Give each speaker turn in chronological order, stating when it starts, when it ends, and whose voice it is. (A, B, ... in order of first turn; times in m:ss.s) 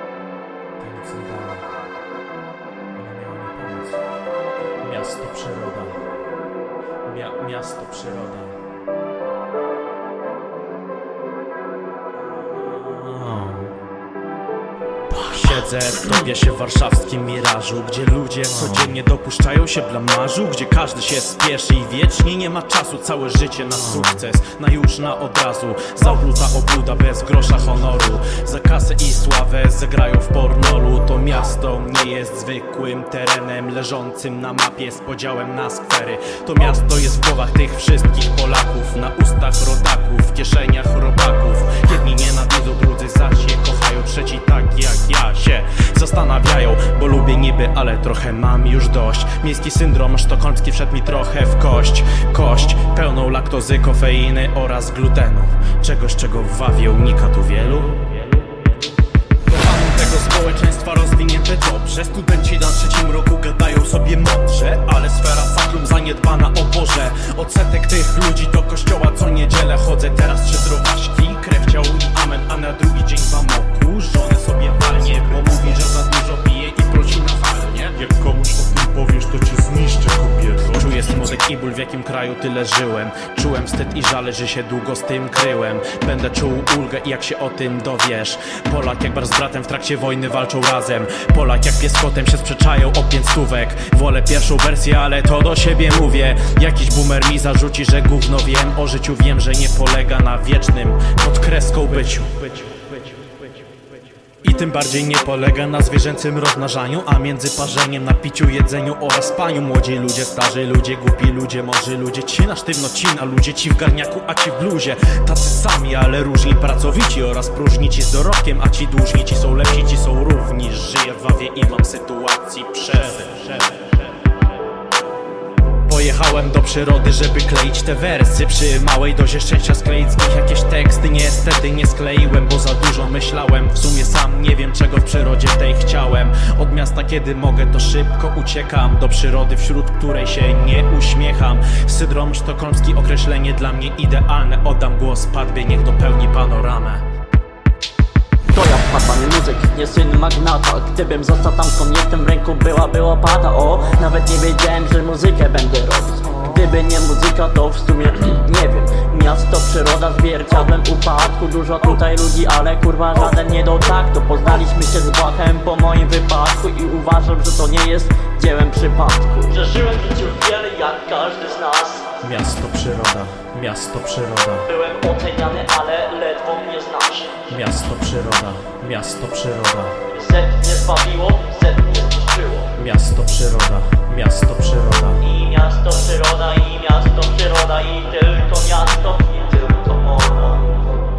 0:00.8-0:01.7 A
0:03.0-0:04.0 A
0:04.8-0:06.0 A
0:07.0-0:08.6 A
0:12.2-0:13.8 A
0:15.1-0:58.1 A
0:59.4-1:18.1 A
1:18.0-1:21.2 B
1:20.6-1:42.8 A
1:44.4-2:03.8 A
2:05.9-2:27.0 A
2:28.5-2:52.2 C
2:52.2-2:54.7 A
2:54.6-2:57.5 C
2:57.5-3:00.0 A
3:00.1-3:02.7 C
3:02.8-3:05.2 A
3:05.2-3:10.8 C